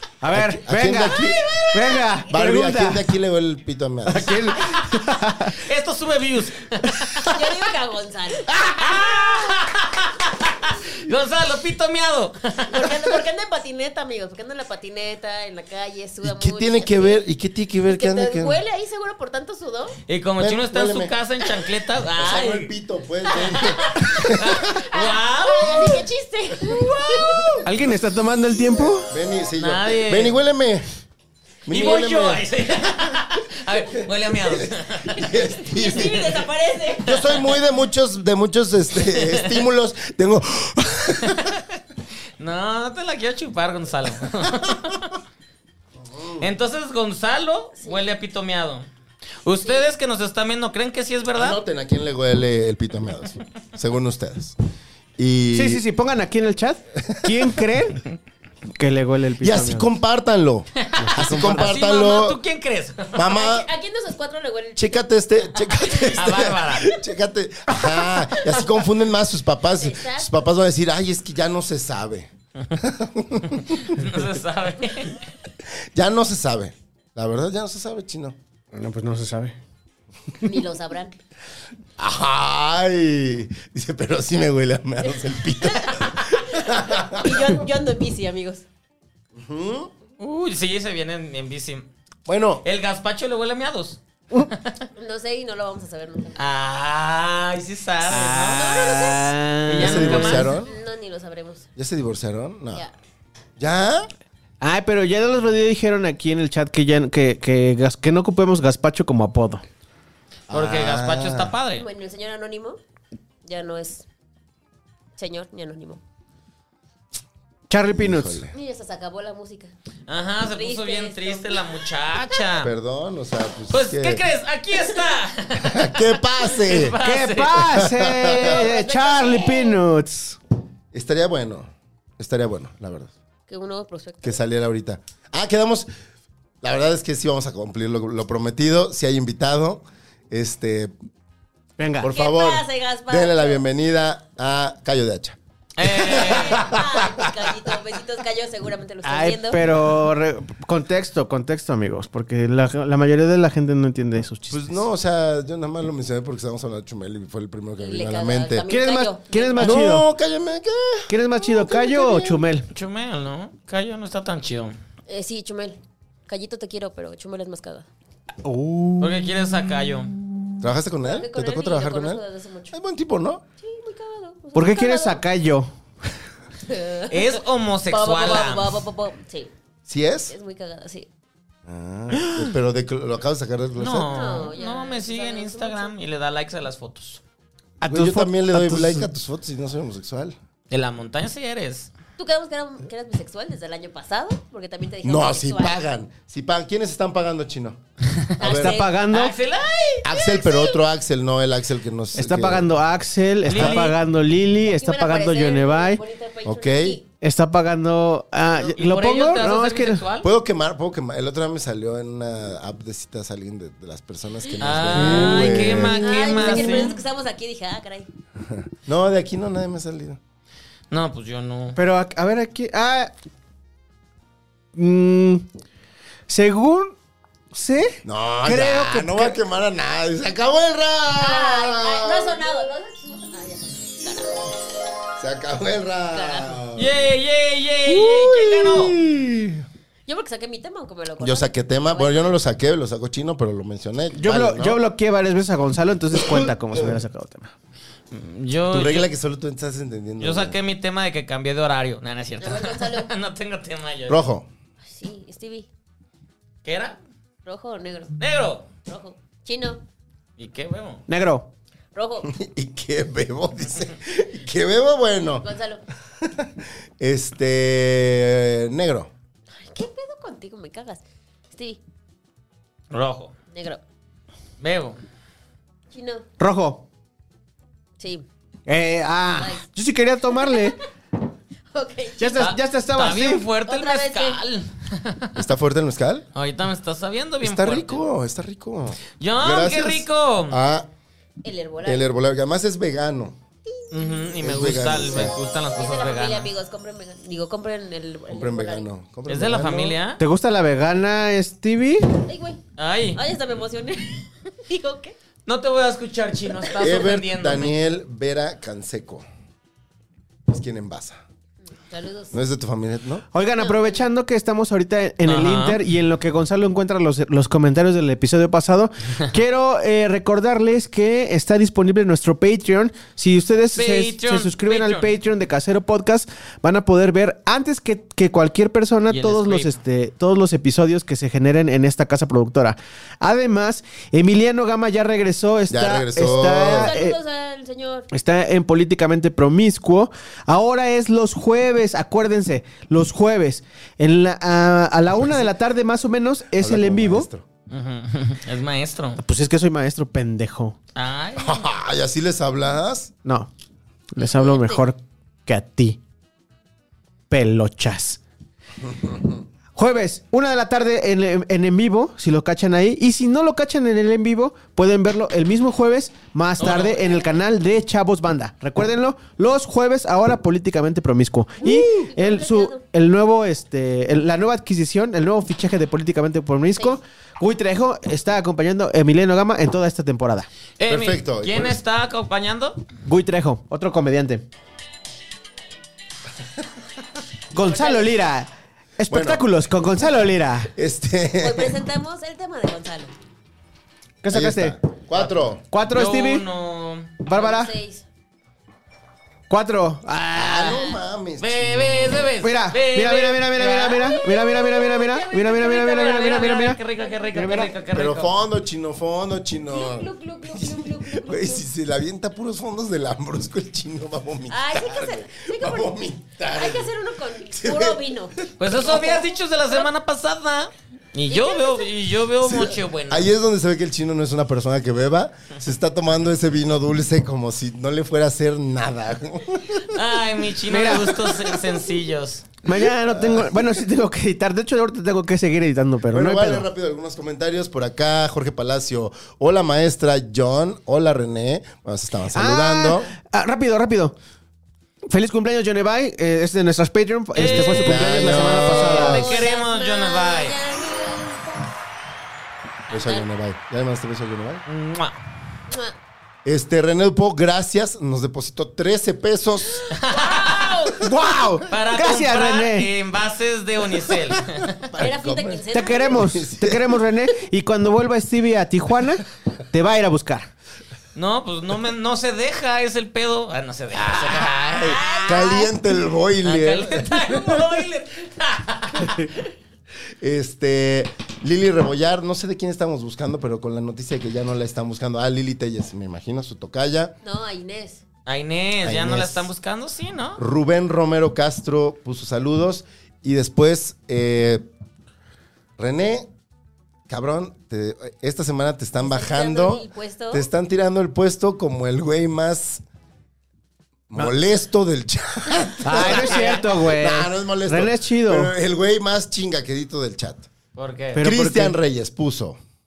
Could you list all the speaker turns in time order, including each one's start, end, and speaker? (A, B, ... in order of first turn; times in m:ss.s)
0:00.2-0:03.0 A
0:00.3-0:01.4 B
0:01.5-0:02.0 C
0:02.3-0:04.5 B
0:04.1-0:05.6 A
0:04.6-0:04.9 C
0:05.5-0:07.6 C
0:07.3-0:09.6 D
0:08.5-0:13.1 C
0:12.7-0:17.2 D
0:16.2-0:18.6 B
0:17.8-0:20.0 D
0:20.1-0:22.7 C
0:20.4-0:21.1 B
0:22.2-0:24.8 B
0:23.3-0:26.0 C
0:23.4-0:27.7 D
0:27.2-0:27.6 B
0:27.6-0:29.1 A
0:28.8-0:30.8 B
0:29.6-0:30.4 C
0:31.7-0:32.5 B
0:31.7-0:35.3 C
0:34.3-0:36.4 B
0:35.6-0:37.3 D
0:37.0-0:41.6 B
0:37.1-0:37.5 C
0:39.1-0:39.6 C
0:41.2-0:41.7 C
0:42.4-0:45.2 C
0:46.0-0:46.5 B
0:46.4-0:48.9 C
0:47.8-0:48.1 D
0:49.4-0:51.6 C
0:49.6-0:49.9 D
0:51.3-0:54.6 B
0:55.2-0:55.8 B
0:55.5-0:58.1 A
0:57.0-0:57.6 B
0:58.7-0:59.9 A
0:59.4-1:02.4 B
1:00.8-1:03.3 C
1:01.0-1:01.7 A
1:03.1-1:03.7 B
1:03.2-1:05.0 D
1:04.8-1:14.1 B
1:05.8-1:06.1 D
1:06.0-1:07.0 C
1:09.8-1:10.5 D
1:13.6-1:15.3 C
1:15.9-1:18.4 B
1:18.7-1:19.6 A
1:20.4-1:21.2 D
1:22.0-1:27.5 B
1:25.1-1:28.6 D
1:29.4-1:29.9 B
1:30.2-1:31.8 C
1:32.3-1:32.6 B
1:32.6-1:34.8 C
1:35.0-1:36.4 D
1:36.4-1:38.9 C
1:38.1-1:40.4 A
1:38.5-1:39.4 D
1:39.7-1:40.5 C
1:39.8-1:40.7 B
1:40.5-1:41.7 D
1:41.8-1:42.8 B
1:43.6-1:44.1 B
1:44.6-1:49.6 A
1:50.5-1:51.6 B
1:50.5-1:51.8 C
1:51.8-1:52.8 D
1:53.4-1:54.1 D
1:55.2-1:56.0 D
1:57.7-1:58.4 A
1:57.9-1:58.5 B
1:58.5-1:59.7 D
2:00.1-2:02.7 C
2:00.5-2:02.3 D
2:02.6-2:04.2 B
2:03.7-2:07.7 C
2:05.6-2:07.0 B
2:07.0-2:10.4 A
2:07.6-2:08.6 B
2:08.3-2:09.8 D
2:10.9-2:13.1 B
2:13.5-2:14.4 D
2:14.2-2:15.9 B
2:16.6-2:20.9 B
2:21.8-2:22.1 A
2:22.0-2:27.6 B
2:22.0-2:23.6 D
2:25.8-2:26.7 C
2:26.1-2:29.6 D
2:29.0-2:34.8 A
2:34.5-2:38.7 B
2:37.8-2:39.9 D
2:38.7-2:40.1 A
2:39.6-2:42.4 B
2:41.1-2:42.7 A
2:42.7-2:44.8 C
2:45.1-2:47.9 D
2:48.4-2:50.5 A
2:49.0-2:50.1 C
2:50.6-2:53.4 B
2:51.0-2:52.8 D
2:53.6-2:55.2 D
2:54.6-2:55.7 A
2:56.7-2:59.5 D
2:57.1-2:58.8 C
2:59.9-3:00.3 B
3:00.3-3:01.1 D
3:01.7-3:04.2 B
3:02.2-3:02.5 A
3:03.8-3:07.2 C
3:04.1-3:05.9 D
3:07.8-3:09.1 A
3:07.9-3:10.4 B
3:10.7-3:11.9 C
3:12.2-3:15.8 D
3:15.0-3:17.8 B
3:18.4-3:18.8 B
3:18.4-3:19.0 D
3:18.4-3:19.4 A
3:19.1-3:20.0 C
3:20.0-3:22.7 B
3:20.1-3:20.8 D
3:22.2-3:26.0 A
3:23.4-3:24.0 C
3:23.5-3:23.9 B
3:24.6-3:27.0 D
3:26.4-3:27.0 B
3:27.2-3:30.0 A
3:28.8-3:30.3 C
3:30.2-3:36.0 B
3:34.6-3:37.0 C
3:34.9-3:36.9 A
3:36.0-3:38.1 D
3:38.4-3:40.2 B
3:40.9-3:41.8 C
3:41.8-3:43.1 A
3:44.8-3:45.5 A
3:46.3-3:47.0 A
3:47.5-3:49.4 A
3:48.0-3:52.5 B
3:51.2-3:54.5 D
3:55.2-3:57.0 B
3:56.1-3:56.6 D
3:56.8-3:59.0 C
3:57.9-3:59.6 B
4:00.1-4:02.3 D
4:01.2-4:04.8 B
4:04.2-4:07.5 A
4:06.2-4:06.9 B
4:08.1-4:09.1 C
4:08.7-4:10.6 B
4:10.2-4:14.2 C
4:12.4-4:13.1 D
4:14.1-4:14.5 B
4:14.8-4:15.7 D
4:16.6-4:17.0 C
4:17.4-4:18.1 D
4:18.2-4:18.7 C
4:18.8-4:19.8 D
4:20.4-4:21.0 C
4:21.1-4:21.5 A
4:22.0-4:22.3 D
4:22.2-4:25.5 B
4:25.4-4:25.8 D
4:26.2-4:29.1 B
4:29.5-4:31.8 D
4:32.9-4:33.3 C
4:33.5-4:33.8 D
4:34.6-4:35.0 C
4:35.9-4:36.2 D
4:36.4-4:36.8 A
4:38.0-4:38.2 D
4:38.7-4:40.8 A
4:39.4-4:39.7 D
4:40.3-4:40.8 D
4:41.7-4:42.5 D
4:42.2-4:43.4 A
4:42.4-4:45.4 C
4:43.7-4:44.4 D
4:45.4-4:46.3 B
4:46.4-4:48.0 C
4:47.4-4:50.9 B
4:49.2-4:50.6 C
4:51.4-4:52.1 D
4:51.8-4:53.4 B
4:53.9-4:54.3 D
4:53.9-4:56.5 C
4:54.4-4:55.4 B
4:55.8-4:58.9 D
4:58.3-5:00.0 B
4:59.3-5:00.2 C
5:00.2-5:02.2 A
5:02.2-5:02.6 D
5:02.8-5:03.2 C
5:03.1-5:05.2 D
5:05.5-5:07.7 C
5:06.8-5:09.3 B
5:10.5-5:11.2 B
5:11.9-5:12.4 D
5:12.3-5:13.2 B
5:13.3-5:37.2 A
5:13.6-5:14.0 D
5:15.2-5:15.8 C
5:23.8-5:25.1 C
5:29.1-5:29.8 C
5:35.7-5:36.9 B
5:36.5-5:38.1 D
5:38.1-5:47.3 A
5:46.5-5:47.5 B
5:47.7-5:49.2 C
5:49.2-5:50.8 A
5:51.0-5:51.7 C
5:51.4-5:53.1 B
5:53.2-5:53.5 A
5:54.2-5:56.0 A
5:54.2-5:54.9 D
5:57.3-5:58.2 A
5:59.8-6:20.5 A
6:06.6-6:07.2 C
6:11.6-6:12.8 D
6:20.8-6:22.8 C
6:20.9-6:21.8 B
6:23.0-6:24.4 A
6:27.5-6:30.7 A
6:27.6-6:28.2 D
6:29.1-6:29.4 B
6:30.7-6:31.8 B
6:31.4-6:33.1 D
6:34.2-6:34.8 A
6:34.3-6:35.6 B
6:35.7-6:36.4 A
6:35.8-6:37.2 C
6:37.2-6:37.7 A
6:37.3-6:38.0 D
6:39.5-6:40.8 A
6:40.3-6:42.3 B
6:40.7-6:41.0 D
6:41.4-6:44.2 C
6:42.4-6:46.8 A
6:44.1-6:45.9 D
6:45.5-6:48.4 C
6:47.0-6:47.3 D
6:47.3-6:47.7 A
6:47.9-6:56.9 B
6:49.7-6:51.6 D
6:54.5-6:56.0 D
6:56.5-6:59.9 D
6:57.5-6:58.7 B
6:58.6-7:03.3 C
7:01.3-7:01.9 D
7:02.4-7:09.9 B
7:09.9-7:12.6 C
7:10.7-7:11.5 A
7:12.6-7:16.7 A
7:13.0-7:13.8 B
7:16.1-7:23.1 B
7:22.3-7:24.2 A
7:25.1-7:29.2 A
7:27.4-7:28.1 C
7:27.4-7:29.3 B
7:28.8-7:30.6 C
7:29.0-7:31.7 D
7:32.9-7:33.3 D
7:32.9-7:34.6 B
7:34.7-7:35.2 C
7:35.7-7:36.0 D
7:36.4-7:39.8 B
7:39.8-7:41.1 D
7:39.9-7:40.9 C
7:41.0-7:42.9 A
7:41.7-7:44.9 C
7:44.8-7:47.0 B
7:45.0-7:46.3 D
7:45.7-7:50.5 A
7:51.2-7:55.6 C
7:53.9-7:57.8 B
7:54.8-7:55.7 D
7:56.4-7:59.4 C
8:00.2-8:07.2 B
8:07.2-8:08.0 D
8:08.3-8:10.4 C
8:08.8-8:09.5 B
8:10.4-8:14.6 B
8:15.8-8:16.3 B
8:17.1-8:22.8 B
8:19.0-8:20.5 D
8:24.1-8:30.5 B
8:25.8-8:28.5 A
8:25.9-8:26.7 C
8:30.8-8:31.2 C
8:31.2-8:31.8 A
8:31.2-8:32.6 B